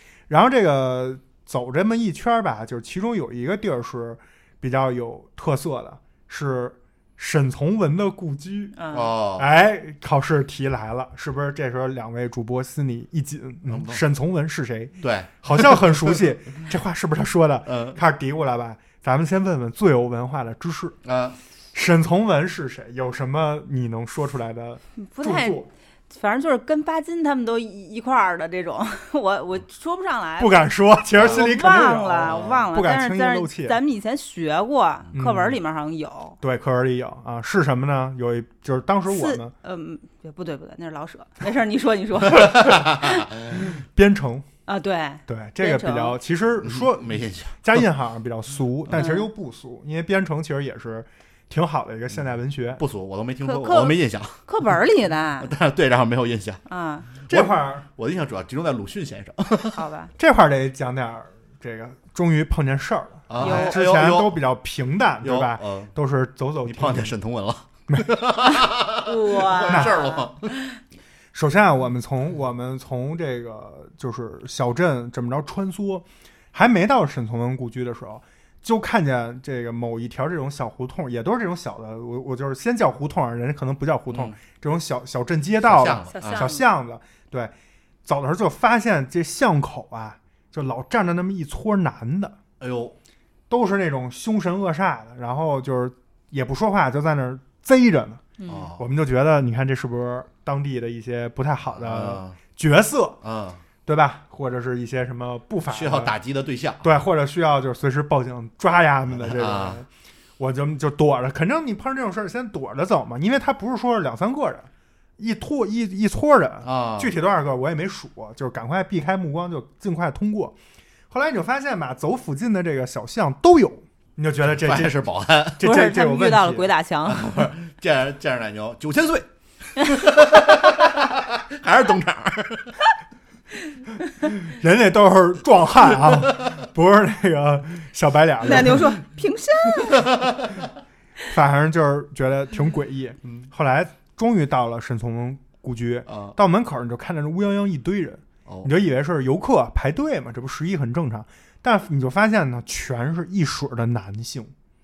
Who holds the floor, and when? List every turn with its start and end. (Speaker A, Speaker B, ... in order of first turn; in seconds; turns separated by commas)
Speaker A: 0.3-8.8, Speaker B: 8.8-9.1, Speaker C: 8.9-9.5, Speaker A: 9.3-21.0, Speaker C: 13.7-14.0, Speaker C: 15.0-16.2, Speaker C: 17.6-18.0, Speaker C: 21.0-21.4, Speaker A: 21.7-25.7, Speaker B: 25.0-36.4, Speaker A: 30.4-33.8, Speaker C: 31.1-31.5, Speaker C: 32.2-32.7, Speaker A: 35.1-35.6, Speaker A: 36.4-39.5, Speaker B: 39.1-43.3, Speaker C: 42.2-43.6, Speaker A: 43.8-44.5, Speaker B: 44.7-46.1, Speaker A: 45.3-52.8, Speaker C: 46.6-47.5, Speaker B: 48.9-49.3, Speaker C: 52.8-54.4, Speaker B: 53.4-55.5, Speaker C: 55.4-56.6, Speaker B: 56.7-57.1, Speaker C: 57.3-59.8, Speaker A: 57.3-57.9, Speaker B: 59.7-60.1, Speaker A: 60.2-67.1, Speaker C: 63.3-64.4, Speaker B: 63.4-63.8, Speaker C: 65.2-65.9, Speaker C: 66.6-70.5, Speaker B: 69.0-70.3, Speaker A: 69.7-70.0, Speaker A: 71.3-87.5, Speaker C: 84.1-84.4, Speaker C: 85.6-86.5, Speaker B: 86.1-86.6, Speaker A: 88.0-92.3, Speaker C: 92.6-92.9, Speaker A: 93.5-98.2, Speaker B: 98.4-98.7, Speaker C: 98.5-98.8, Speaker A: 98.8-103.2, Speaker C: 101.7-102.4, Speaker C: 103.2-103.6, Speaker A: 103.8-106.2, Speaker C: 105.7-106.9, Speaker A: 106.8-109.9, Speaker C: 109.1-109.8, Speaker A: 110.4-120.5, Speaker C: 116.6-117.1, Speaker A: 121.1-125.0, Speaker C: 124.5-125.6, Speaker A: 125.6-126.7, Speaker B: 125.6-127.4, Speaker C: 127.0-132.8, Speaker A: 134.4-138.9, Speaker B: 138.4-140.2, Speaker C: 140.1-140.4, Speaker A: 141.2-154.5, Speaker C: 146.1-146.3